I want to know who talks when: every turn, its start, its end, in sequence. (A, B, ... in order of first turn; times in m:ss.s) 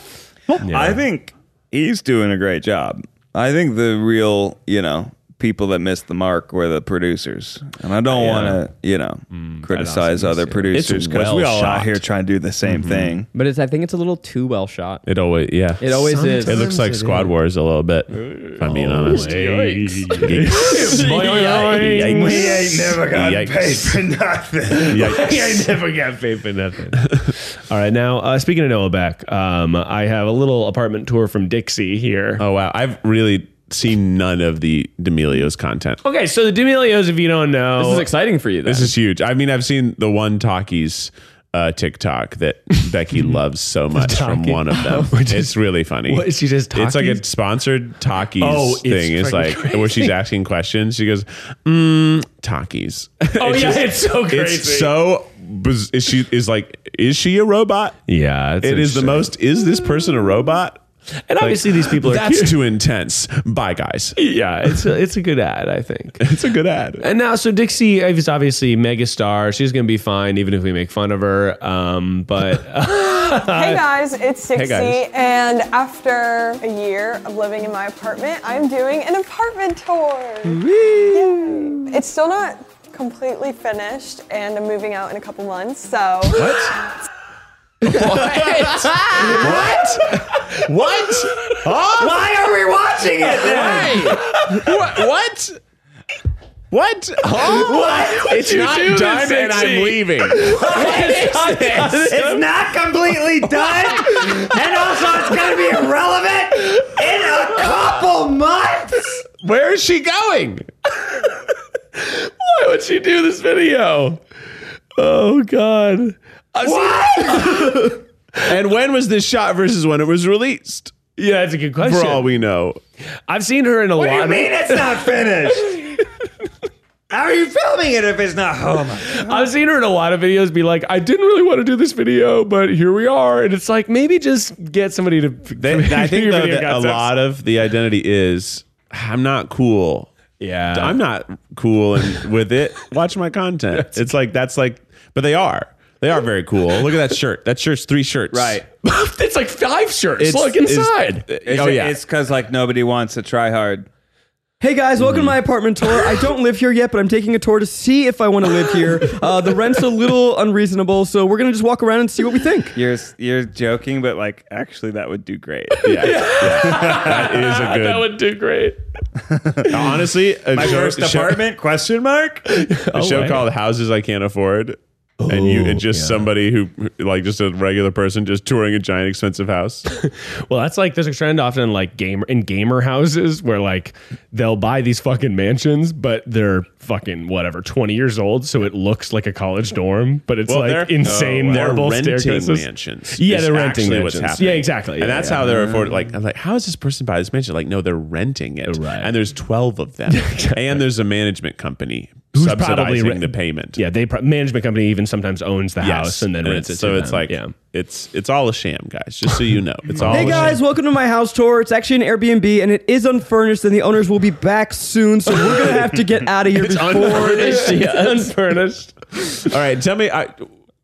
0:00.5-0:13.3 A
0:00.6-0:01.0 B
0:08.2-0:08.6 C
0:08.2-0:08.6 B
0:09.3-0:10.8 B
0:10.7-0:12.0 C
0:12.6-0:13.1 B
0:13.3-0:15.0 D
0:15.1-0:19.4 C
0:15.8-0:16.6 D
0:15.9-0:17.4 B
0:18.5-0:22.8 B
0:19.1-0:22.1 D
0:20.2-0:21.1 C
0:21.8-0:24.0 C
0:21.9-0:25.3 A
0:24.7-0:32.4 B
0:24.9-0:25.7 C
0:27.1-0:27.3 C
0:32.4-0:36.0 C
0:36.0-0:38.1 B
0:37.8-0:38.9 D
0:38.6-0:58.0 C
0:43.1-0:43.4 B
0:43.9-0:47.2 B
0:48.4-0:50.2 B
0:53.4-0:54.9 B
0:58.1-0:59.3 B
0:58.6-1:00.8 C
1:01.3-1:02.6 B
1:01.4-1:04.2 C
1:04.2-1:06.4 B
1:06.2-1:07.1 C
1:07.0-1:13.8 B
1:13.4-1:26.5 E
1:14.6-1:15.0 C
1:20.6-1:21.8 D
1:26.4-1:26.7 C
1:27.9-1:30.4 B
1:28.0-1:32.3 C
1:28.1-1:29.5 D
1:29.4-1:29.7 A
1:32.0-1:34.2 A
1:33.4-1:35.6 C
1:33.4-1:35.0 B
1:36.7-1:42.1 C
1:37.3-1:42.5 B
1:42.1-1:49.2 A
1:49.4-1:50.6 C
1:51.9-1:54.2 B
1:55.0-1:58.0 B
1:58.4-2:01.0 C
2:01.2-2:02.4 B
2:01.8-2:02.8 C
2:03.3-2:06.3 B
2:04.0-2:05.8 A
2:07.1-2:09.5 A
2:09.0-2:17.0 B
2:15.6-2:17.0 A
2:16.3-2:20.1 C
2:20.4-2:21.0 B
2:20.7-2:28.6 C
2:23.7-2:24.1 B
2:28.8-2:31.3 B
2:30.2-2:32.0 C
2:31.4-2:33.9 A
2:34.6-2:42.8 D
2:38.6-2:39.3 B
2:42.7-2:47.4 A
2:45.8-2:48.8 B
2:45.8-2:48.1 C
2:49.3-2:49.9 A
2:49.7-2:51.4 C
2:50.5-2:52.5 A
2:52.5-2:53.5 B
2:52.9-2:59.9 C
2:55.2-2:56.3 B
2:59.9-3:15.8 B
3:10.5-3:23.8 C
3:11.1-3:11.7 A
3:15.6-3:15.9 A
3:18.6-3:19.1 B
3:20.1-3:20.8 B
3:22.3-3:27.5 B
3:25.8-3:30.6 C
3:29.9-3:30.6 B
3:30.1-3:38.3 D
3:36.5-3:37.8 C
3:36.9-3:39.5 B
3:39.4-3:40.5 C